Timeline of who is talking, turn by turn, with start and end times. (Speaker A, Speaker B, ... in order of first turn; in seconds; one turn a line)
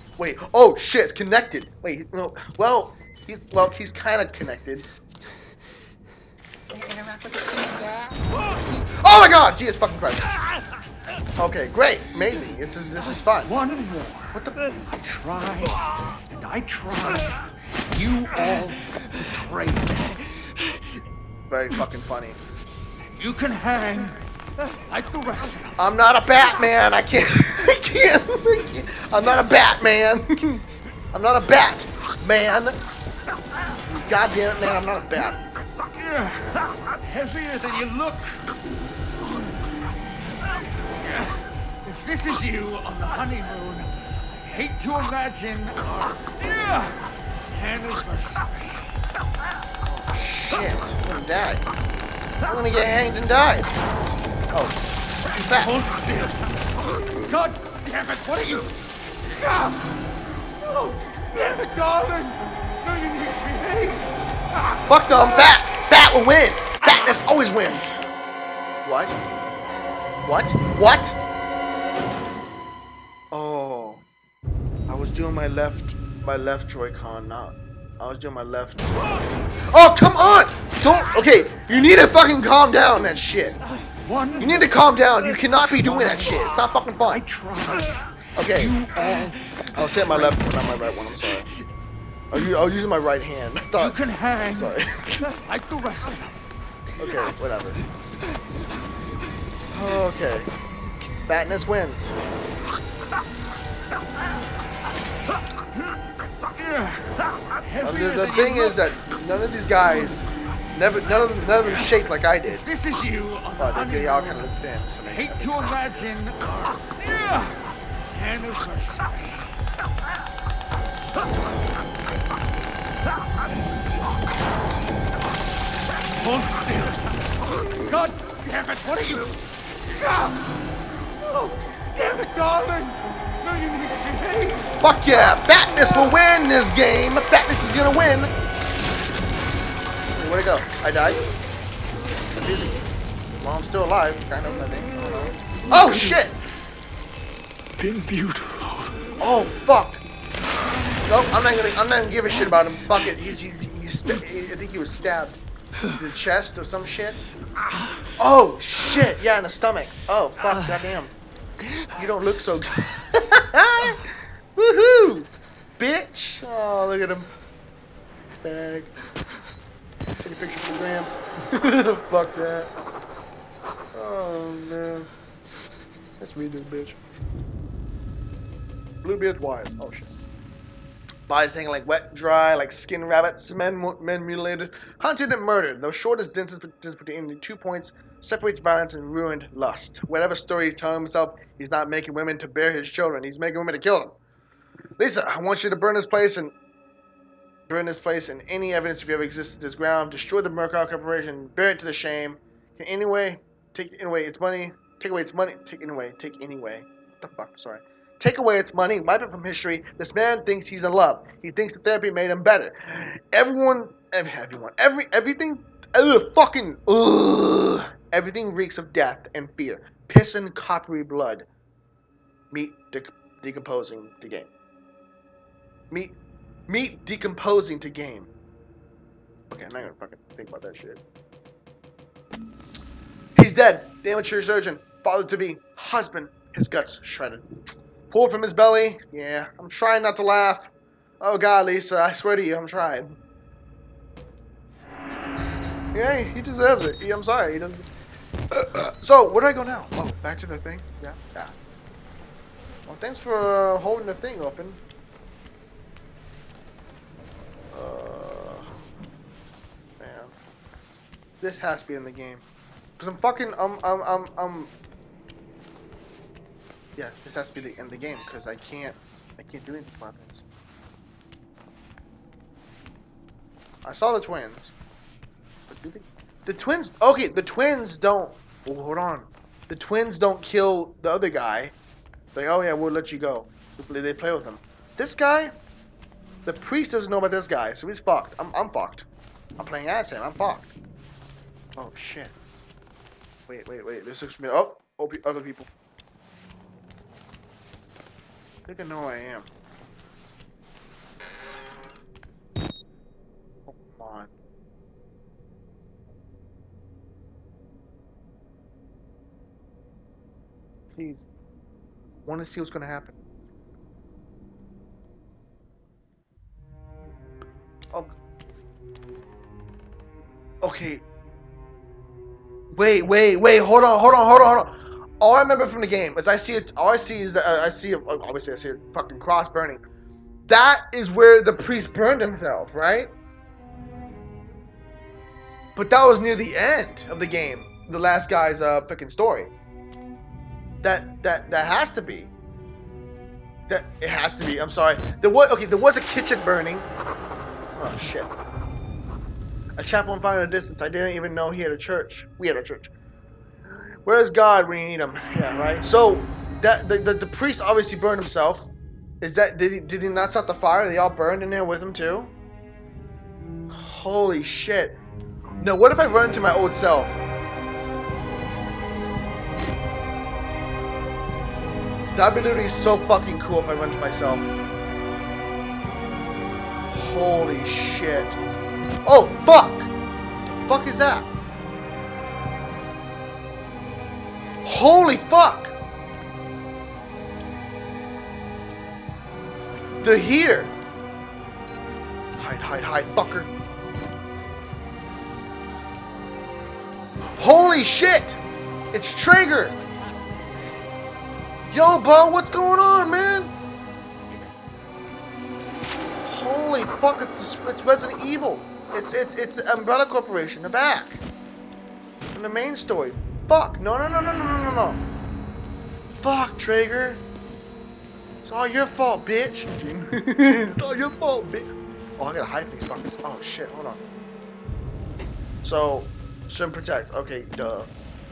Speaker A: 0.2-4.9
Speaker A: 6.7-10.3
Speaker A: 11.4-13.5
Speaker B: 13.4-20.8
Speaker A: 14.3-14.8
Speaker A: 21.5-22.4
Speaker B: 23.0-25.8
Speaker A: 25.8-32.8
Speaker A: 33.9-35.4
Speaker B: 35.8-38.5
Speaker B: 40.3-49.0
Speaker A: 49.9-51.6
Speaker A: 52.5-53.7
Speaker A: 54.5-55.8
Speaker B: 55.3-64.8
Speaker A: 64.9-68.0
Speaker A: 68.8-69.2
Speaker A: 70.2-71.2
Speaker A: 73.3-74.0
Speaker A: 74.9-79.0
Speaker A: 79.7-83.6
Speaker B: 83.8-84.8
Speaker A: 84.4-87.2
Speaker B: 85.5-90.5
Speaker A: 88.4-88.8
Speaker A: 89.7-91.5
Speaker A: 92.3-94.0
Speaker B: 93.8-96.4
Speaker A: 94.5-95.3
Speaker A: 97.0-97.8
Speaker A: 99.7-100.5
Speaker A: 101.3-102.2
Speaker B: 106.4-108.8
Speaker A: 107.8-112.7
Speaker B: 112.6-114.5
Speaker A: 113.6-116.2
Speaker B: 115.1-119.6
Speaker B: 126.0-130.5
Speaker B: 131.1-134.7
Speaker A: 134.8-138.3
Speaker A: 140.1-141.3
Speaker A: 142.3-142.8
Speaker A: 143.3-146.3
Speaker B: 145.7-146.2
Speaker B: 147.8-149.0
Speaker A: 149.2-150.0
Speaker A: 151.1-157.2
Speaker A: 158.2-161.2
Speaker A: 161.9-167.3
Speaker A: 168.4-168.9
Speaker A: 170.2-172.7
Speaker A: 173.9-175.1
Speaker A: 176.2-177.0
Speaker A: 179.0-180.1
Speaker A: 181.3-194.2
Speaker A: 195.0-196.5
Speaker A: 197.7-221.5
Speaker A: 222.5-224.5
Speaker A: 225.9-226.2
Speaker A: 226.7-228.3
Speaker A: 229.5-231.0
Speaker A: 233.3-237.5
Speaker A: 238.1-243.2
Speaker A: 245.9-247.9
Speaker A: 248.5-251.5
Speaker A: 252.9-254.8
Speaker A: 257.7-258.7
Speaker A: 260.0-260.3
Speaker A: 261.4-262.4
Speaker A: 263.0-264.7
Speaker A: 267.0-270.4
Speaker A: 273.9-274.7
Speaker A: 275.7-281.7
Speaker A: 282.3-285.5
Speaker A: 286.5-289.1
Speaker A: 289.6-290.7
Speaker A: 291.8-292.3
Speaker A: 293.5-295.7
Speaker A: 298.7-299.5
Speaker A: 303.7-304.3
Speaker A: 310.9-311.3
Speaker A: 312.2-313.2
Speaker A: 320.6-321.0
Speaker A: 322.7-329.8
Speaker A: 330.5-333.1
Speaker A: 335.8-339.5
Speaker A: 340.8-342.3
Speaker A: 343.7-346.9
Speaker A: 347.8-348.3
Speaker A: 349.8-352.9
Speaker A: 353.8-362.3
Speaker A: 363.7-365.0
Speaker A: 365.6-367.2
Speaker A: 372.1-374.5
Speaker A: 376.9-378.4
Speaker A: 379.1-379.9
Speaker A: 380.5-381.3
Speaker A: 384.6-385.8
Speaker A: 390.0-390.7
Speaker A: 392.4-393.5
Speaker A: 397.4-398.4
Speaker A: 398.9-399.8
Speaker A: 401.7-403.5
Speaker A: 406.3-411.2
Speaker A: 412.3-415.0
Speaker A: 416.2-417.2
Speaker A: 418.4-424.0
Speaker A: 425.6-427.9